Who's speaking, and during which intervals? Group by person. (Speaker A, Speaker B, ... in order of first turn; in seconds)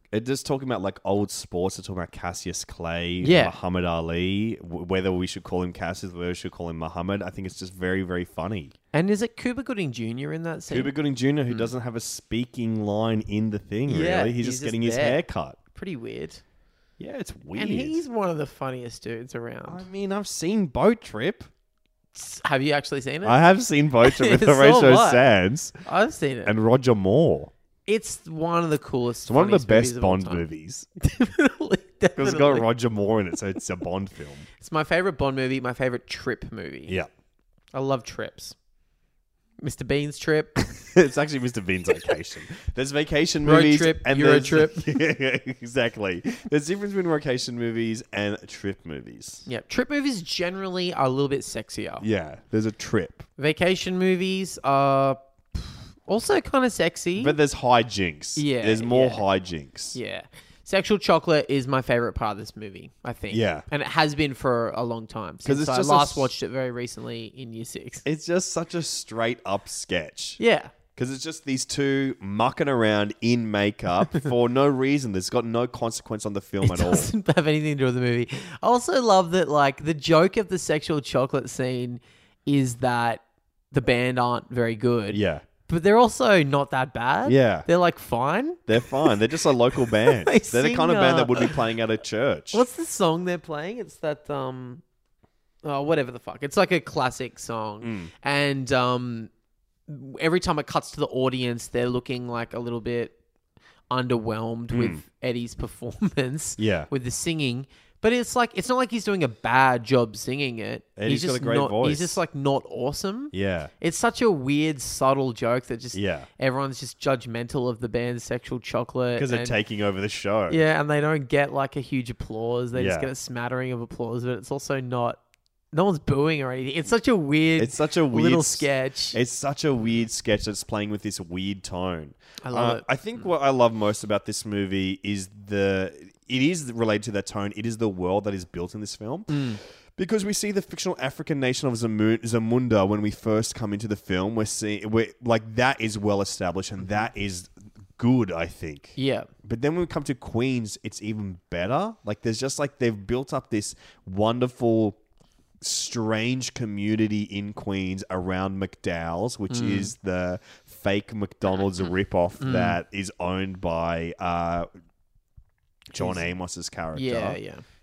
Speaker A: 0.1-8.7, 10.7-15.6, 17.0-18.0, 19.7-21.5, 23.2-25.7, 26.4-27.5, 29.2-30.9, 32.2-34.5, 40.9-49.4, 52.0-53.2, 57.2-60.0, 63.3-63.6, 65.4-66.3, 68.0-70.4, 71.0-77.1, 85.1-85.4, 87.2-87.7, 88.7-92.6, 97.8-98.1, 104.7-105.0, 106.6-106.9, 111.0-112.2, 113.3-113.7, 115.9-116.3, 119.2-120.6, 122.7-123.1, 127.6-155.0, 155.6-164.7, 165.9-167.4
Speaker B: 3.2-3.5, 8.9-10.9, 13.9-16.4, 17.5-19.8, 22.1-23.4, 24.0-25.2, 25.8-26.5, 27.9-30.4, 31.0-32.7, 34.6-36.9, 37.7-38.5, 39.6-40.7, 43.4-45.0, 49.5-52.0, 53.4-57.4, 58.4-59.2, 59.9-68.0, 70.4-70.7, 76.6-83.2, 83.7-89.2, 89.8-91.6, 92.5-94.8, 95.6-99.3, 99.9-103.1, 103.9-119.5, 120.5-125.2, 125.7-129.2, 132.4-133.2, 139.3-139.6, 148.9-149.3, 159.5-159.9, 162.4-162.8, 166.0-166.2, 166.9-167.6